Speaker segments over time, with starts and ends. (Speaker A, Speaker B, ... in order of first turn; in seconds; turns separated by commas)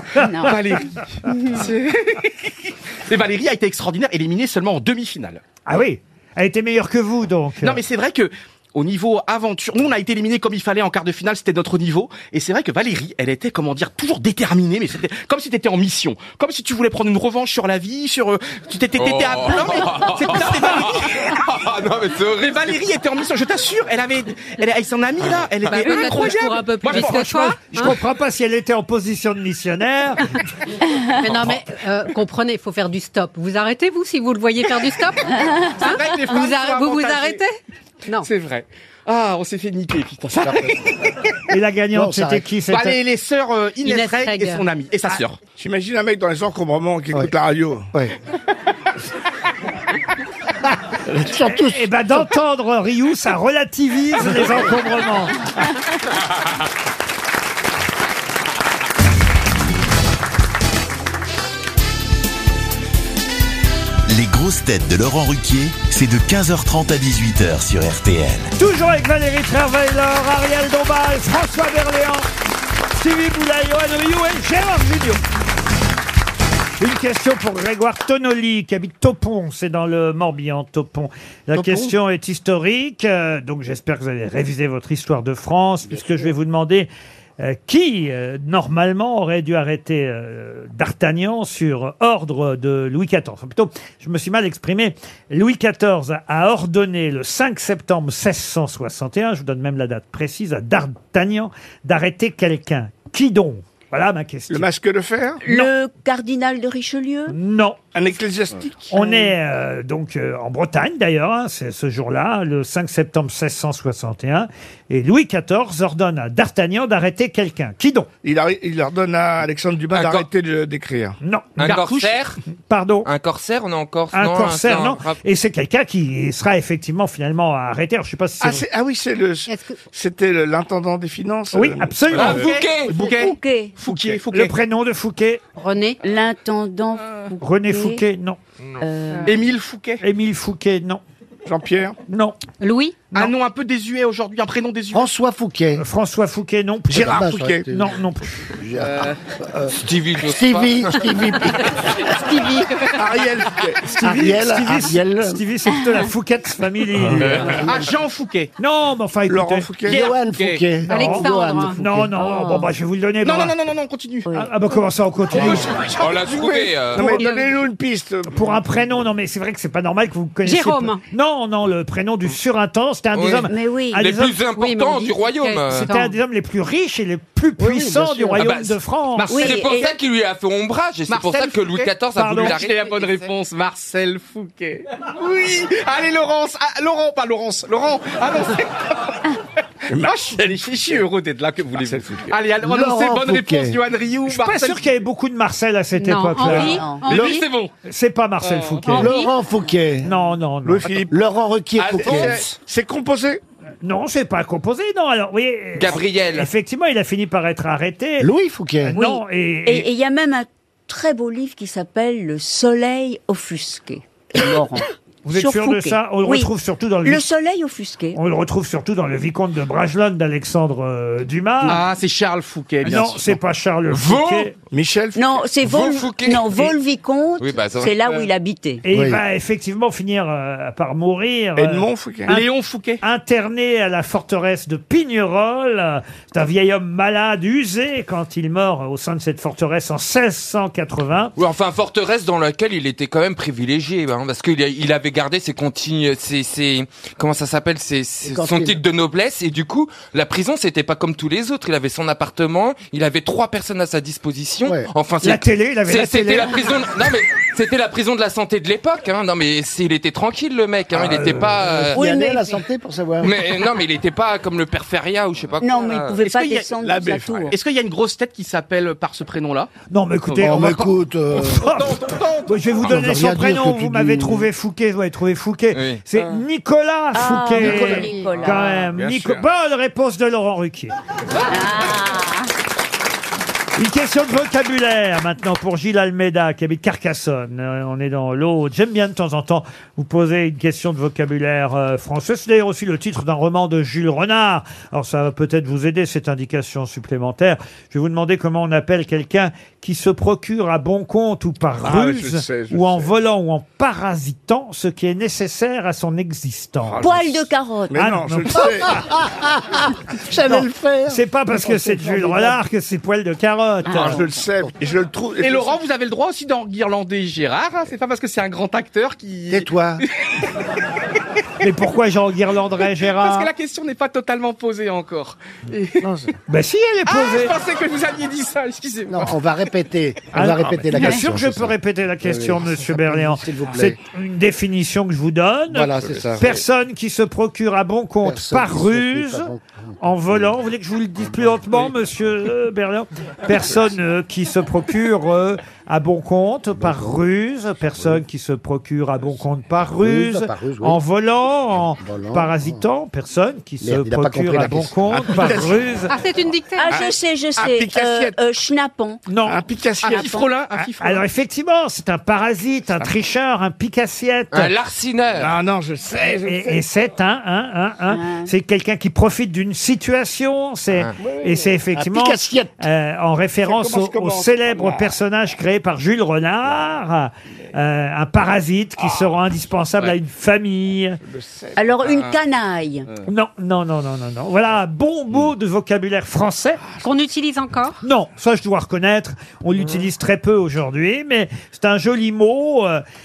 Speaker A: 0.1-0.6, Speaker B: 0.4-5.4, Speaker A: 1.2-1.7, Speaker C: 5.7-7.8, Speaker B: 7.6-21.4, Speaker D: 19.0-22.8, Speaker B: 22.4-27.5, Speaker E: 25.7-28.0, Speaker C: 26.9-30.3, Speaker E: 31.1-38.3, Speaker B: 35.6-37.4, Speaker B: 38.1-41.2, Speaker F: 40.4-40.8, Speaker C: 41.5-43.0, Speaker F: 41.9-42.5, Speaker B: 42.7-45.4, Speaker E: 43.8-44.7, Speaker G: 45.6-47.9, Speaker F: 51.1-51.8, Speaker C: 51.5-55.4, Speaker H: 64.1-68.5, Speaker C: 68.6-72.3, Speaker C: 72.9-75.2, Speaker C: 76.8-104.7, Speaker G: 81.6-81.9, Speaker G: 104.5-105.4, Speaker A: 105.4-107.4, Speaker C: 107.3-107.8, Speaker G: 107.9-108.9, Speaker C: 108.9-118.1, Speaker A: 109.0-109.3, Speaker G: 118.2-121.2, Speaker D: 119.9-120.3, Speaker C: 121.2-121.6, Speaker D: 121.6-122.4, Speaker B: 121.6-122.2, Speaker C: 122.7-123.1, Speaker D: 123.0-125.2, Speaker C: 124.1-128.7, Speaker G: 128.4-133.3, Speaker E: 129.5-129.8, Speaker C: 131.5-132.5, Speaker D: 132.1-132.9, Speaker B: 132.2-134.5, Speaker A: 132.9-133.8, Speaker G: 133.9-134.2, Speaker C: 134.3-135.4, Speaker E: 135.6-136.0, Speaker A: 136.0-138.0, Speaker C: 137.4-138.4, Speaker A: 138.8-139.4, Speaker B: 139.3-140.0, Speaker C: 140.0-141.0, Speaker G: 141.5-142.0, Speaker C: 142.1-142.4, Speaker E: 142.6-143.0, Speaker B: 143.1-145.1, Speaker F: 144.9-145.8, Speaker C: 145.8-148.5, Speaker G: 146.9-147.7, Speaker F: 146.9-152.4, Speaker B: 148.8-149.2, Speaker D: 149.7-151.2, Speaker G: 152.9-153.9, Speaker C: 153.9-157.7, Speaker F: 154.0-155.4, Speaker D: 157.2-157.6, Speaker B: 157.4-158.5, Speaker C: 158.6-159.7, Speaker G: 159.3-160.1, Speaker B: 159.9-160.7, Speaker F: 159.9-162.2, Speaker C: 160.9-163.5, Speaker E: 160.9-161.8, Speaker A: 162.2-162.7, Speaker B: 163.2-164.3, Speaker C: 164.3-165.7, Speaker B: 165.3-166.5, Speaker D: 166.0-167.2, Speaker G: 166.1-168.6, Speaker E: 167.0-167.6, Speaker C: 168.3-174.3, Speaker E: 170.4-171.0, Speaker D: 173.1-175.9, Speaker A: 173.5-174.1, Speaker E: 174.5-176.2, Speaker C: 175.7-179.5, Speaker F: 177.6-178.4, Speaker D: 178.4-178.8, Speaker B: 179.2-179.9, Speaker D: 179.3-183.0, Speaker A: 179.3-179.9, Speaker B: 181.1-189.3, Speaker C: 182.2-182.6, Speaker G: 189.9-191.0, Speaker B: 190.0-194.9, Speaker G: 191.8-192.3, Speaker F: 192.6-193.8, Speaker C: 194.3-196.9, Speaker E: 196.0-197.5, Speaker A: 196.6-197.1, Speaker B: 197.1-197.7, Speaker G: 197.1-197.3, Speaker C: 197.8-199.2, Speaker B: 198.4-198.9, Speaker E: 198.9-199.3, Speaker F: 198.9-200.1, Speaker C: 200.0-201.0, Speaker G: 200.6-201.2, Speaker F: 201.1-202.5, Speaker G: 201.8-203.4, Speaker D: 202.0-202.3, Speaker C: 203.8-208.3, Speaker D: 205.8-206.5, Speaker F: 208.2-209.0, Speaker C: 208.8-209.9, Speaker A: 208.9-216.5, Speaker C: 215.2-217.2, Speaker A: 217.0-218.2, Speaker C: 218.1-221.8, Speaker B: 221.6-223.2, Speaker G: 222.8-223.2, Speaker C: 222.8-224.5, Speaker D: 223.9-224.5, Speaker G: 224.7-225.5, Speaker A: 225.2-228.8, Speaker D: 225.6-226.8, Speaker D: 227.4-228.0, Speaker C: 228.8-232.5, Speaker F: 228.9-229.2, Speaker G: 231.6-232.3, Speaker B: 232.3-233.0, Speaker C: 233.0-241.3, Speaker D: 241.4-262.0, Speaker F: 248.2-248.8, Speaker C: 255.2-256.6, Speaker C: 261.0-261.6, Speaker F: 261.6-263.5, Speaker A: 261.9-262.6, Speaker D: 263.2-266.2, Speaker A: 265.6-267.6, Speaker B: 266.2-266.7, Speaker G: 266.8-267.6, Speaker B: 267.4-269.7, Speaker C: 269.9-280.9, Speaker B: 270.3-270.7, Speaker F: 270.4-271.7, Speaker B: 271.4-272.8, Speaker F: 272.8-274.5, Speaker D: 275.7-276.0, Speaker A: 277.1-278.9, Speaker E: 278.0-278.3, Speaker G: 278.4-279.4, Speaker A: 281.4-282.5, Speaker C: 283.8-307.1, Speaker G: 301.8-303.1, Speaker G: 306.9-309.0, Speaker A: 307.0-308.1, Speaker C: 307.9-308.6, Speaker F: 308.9-312.6, Speaker C: 310.4-314.2, Speaker A: 313.9-314.3, Speaker G: 313.9-315.8, Speaker B: 315.4-320.1, Speaker F: 319.5-320.1, Speaker C: 321.6-323.5, Speaker B: 323.1-326.1, Speaker C: 326.5-327.6, Speaker B: 327.1-329.4, Speaker F: 329.1-334.0, Speaker C: 330.3-356.1, Speaker F: 335.7-336.6, Speaker G: 335.9-336.6, Speaker F: 338.2-340.5, Speaker F: 346.8-347.2, Speaker F: 350.0-351.0, Speaker F: 352.0-352.8, Speaker F: 353.8-355.1, Speaker G: 355.2-355.8, Speaker E: 356.1-357.0, Speaker A: 356.8-359.3, Speaker G: 356.9-358.4, Speaker C: 359.3-359.6, Speaker G: 359.4-360.4, Speaker B: 360.0-361.2, Speaker A: 360.0-360.5, Speaker C: 360.8-364.8, Speaker D: 364.5-365.6, Speaker G: 365.4-366.8, Speaker C: 366.5-381.2, Speaker A: 368.1-368.5, Speaker G: 371.2-371.8, Speaker F: 371.9-372.8, Speaker G: 373.6-375.2, Speaker G: 381.2-382.2, Speaker A: 381.8-383.1, Speaker C: 383.2-386.8, Speaker E: 387.0-388.0, Speaker C: 388.0-393.0